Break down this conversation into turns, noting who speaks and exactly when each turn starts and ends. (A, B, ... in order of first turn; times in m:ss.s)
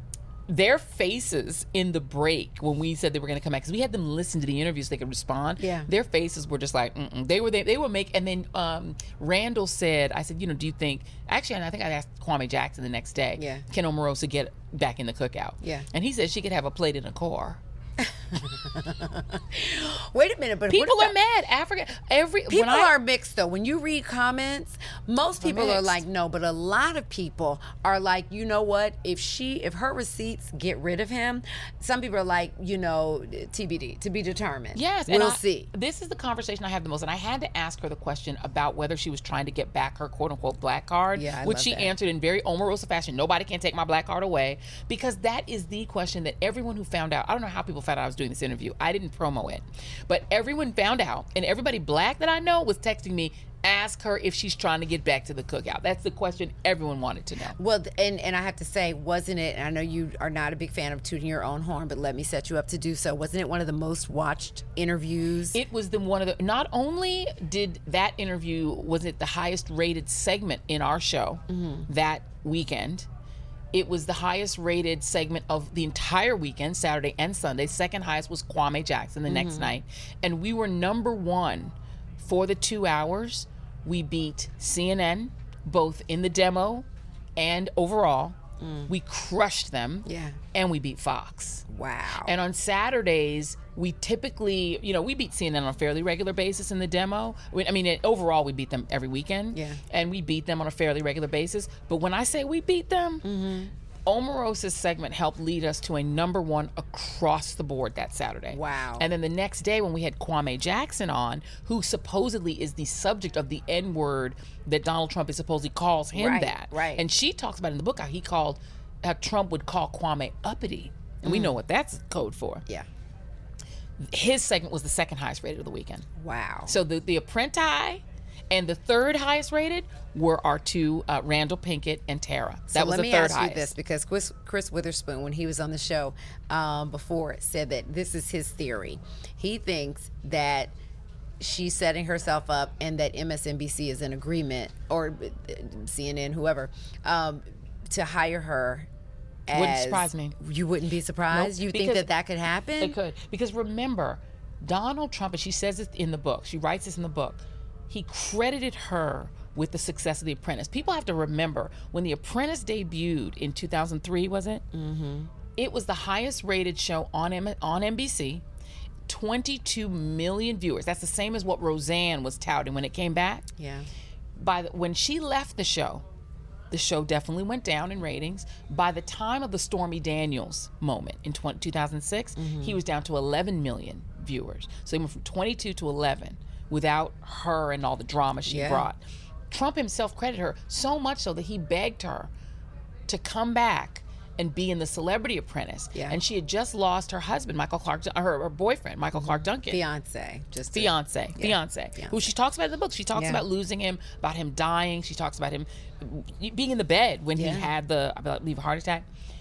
0:00.5-0:17.6 A
0:05.6-0:05.9 B
0:13.4-0:13.6 B
0:15.6-0:15.9 B
0:18.0-0:21.1 B
0:20.7-0:22.9 A
0:22.5-0:35.7 B
0:25.4-0:26.0 A
0:34.7-0:57.6 A
0:41.2-0:42.0 B
0:57.6-1:05.6 B
1:05.5-1:13.1 A
1:11.5-1:11.9 B
1:13.7-1:28.4 A
1:19.3-1:19.8 B
1:28.6-1:28.9 B
1:28.9-1:31.6 A
1:30.0-1:30.4 B
1:31.7-1:32.4 B
1:32.2-1:43.2 A
1:39.5-1:39.8 B
1:43.2-1:43.7 B
1:44.1-2:02.6 A
1:48.5-1:49.1 B
1:56.2-1:57.0 B
2:01.2-2:01.6 B
2:04.0-2:06.1 A
2:06.2-2:06.8 B
2:06.7-2:13.8 A
2:12.7-2:20.7 B
2:21.4-2:28.9 B
2:29.5-2:33.0 B
2:29.5-2:30.4 A
2:31.3-2:32.1 A
2:32.8-2:44.6 A
2:44.7-2:45.3 B
2:45.6-2:48.4 A
2:49.1-2:53.5 A
2:53.6-2:53.9 B
2:54.4-2:56.0 A
2:56.7-3:12.3 A
3:02.4-3:02.8 B
3:08.5-3:08.9 B
3:13.1-3:19.8 A
3:19.1-3:22.3 B
3:20.7-3:29.1 A
3:23.1-3:23.4 B
3:27.4-3:27.7 B